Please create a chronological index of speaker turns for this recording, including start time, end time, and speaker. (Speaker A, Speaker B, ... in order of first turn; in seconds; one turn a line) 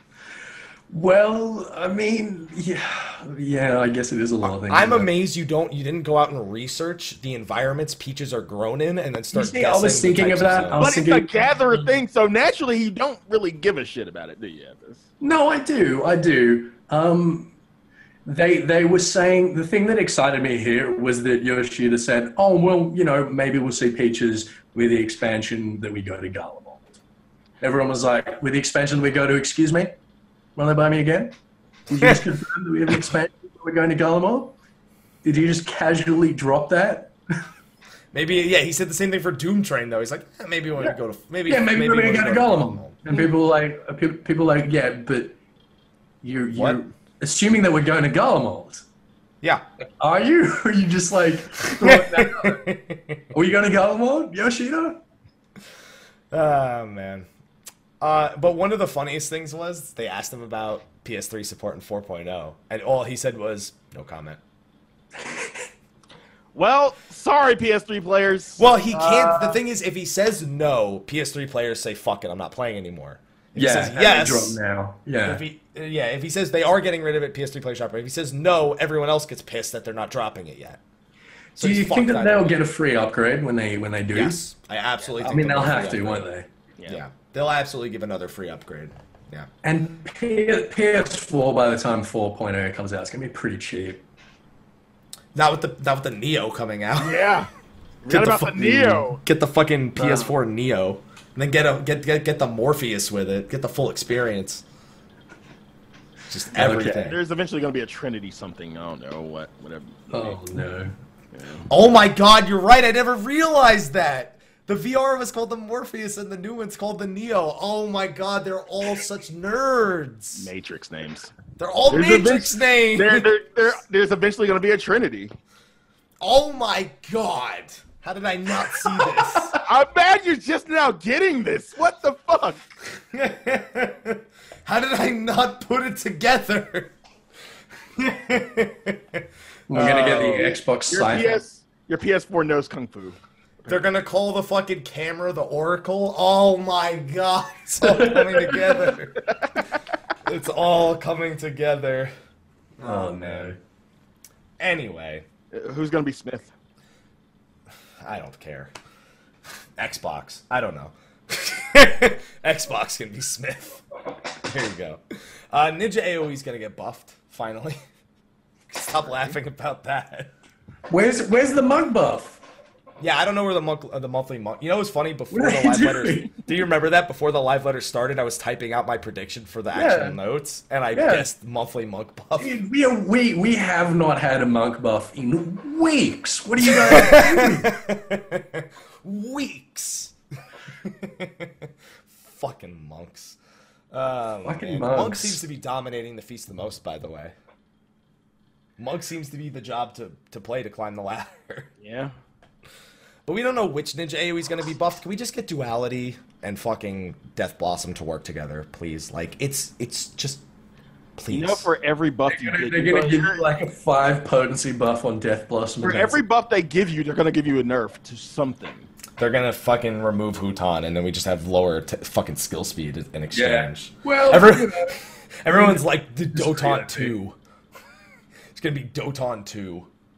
Speaker A: 0.9-5.1
Speaker B: 4.4-10.9
Speaker A: 9.3-12.0
Speaker C: 10.7-15.0
Speaker A: 15.2-17.5
Speaker A: 18.2-26.9
Speaker A: 27.6-29.9
Speaker A: 30.6-31.3
Speaker A: 31.9-34.5
Speaker A: 35.2-37.1
Speaker B: 38.1-43.0
Speaker A: 41.5-45.4
Speaker A: 46.2-48.8
Speaker A: 50.0-52.7
Speaker B: 51.8-53.3
Speaker A: 53.3-55.0
Speaker B: 56.3-57.3
Speaker B: 58.0-64.4
Speaker C: 66.5-69.6
Speaker B: 68.6-74.6
Speaker A: 73.5-75.4
Speaker B: 75.2-80.8
Speaker B: 81.6-82.6
Speaker A: 81.6-84.4
Speaker B: 84.1-86.3
Speaker A: 85.2-86.5
Speaker B: 86.9-89.5
Speaker A: 89.6-94.0
Speaker B: 95.3-97.2
Speaker C: 97.0-97.5
Speaker C: 98.0-99.2
Speaker B: 98.1-104.6
Speaker A: 100.0-100.3
Speaker B: 106.3-107.2
Speaker A: 106.5-107.1
Speaker C: 106.6-110.4
Speaker A: 110.1-110.9
Speaker C: 111.3-111.7
Speaker B: 111.7-120.5
Speaker C: 120.4-121.4
Speaker B: 121.6-123.3
Speaker C: 121.9-125.3
Speaker B: 126.2-129.6
Speaker A: 128.9-129.6
Speaker C: 129.6-132.7
Speaker B: 133.0-136.9
Speaker B: 137.9-140.6
Speaker A: 139.7-141.4
Speaker C: 140.9-143.2
Speaker B: 143.7-149.2
Speaker A: 147.8-148.9
Speaker B: 150.2-152.1
Speaker B: 152.8-153.5
Speaker A: 152.8-153.6
Speaker B: 154.6-155.2
Speaker C: 155.5-156.5
Speaker B: 158.0-158.7
Speaker B: 159.8-163.8
Speaker B: 164.4-167.8
Speaker B: 168.7-170.3
Speaker A: 170.9-172.4
Speaker B: 173.0-182.5
Speaker A: 175.3-176.3
Speaker A: 179.7-180.2
Speaker A: 180.9-181.3
Speaker A: 182.4-187.7
Speaker B: 186.6-190.1
Speaker B: 190.8-193.4
Speaker B: 193.9-197.3
Speaker A: 194.4-195.4
Speaker B: 198.8-201.7
Speaker C: 201.8-202.1
Speaker B: 203.2-210.4
Speaker B: 211.2-211.7
Speaker C: 211.3-213.4
Speaker A: 212.3-216.2
Speaker C: 215.8-218.9
Speaker B: 219.2-227.4
Speaker A: 223.3-225.0
Speaker A: 225.5-227.1
Speaker B: 228.5-229.9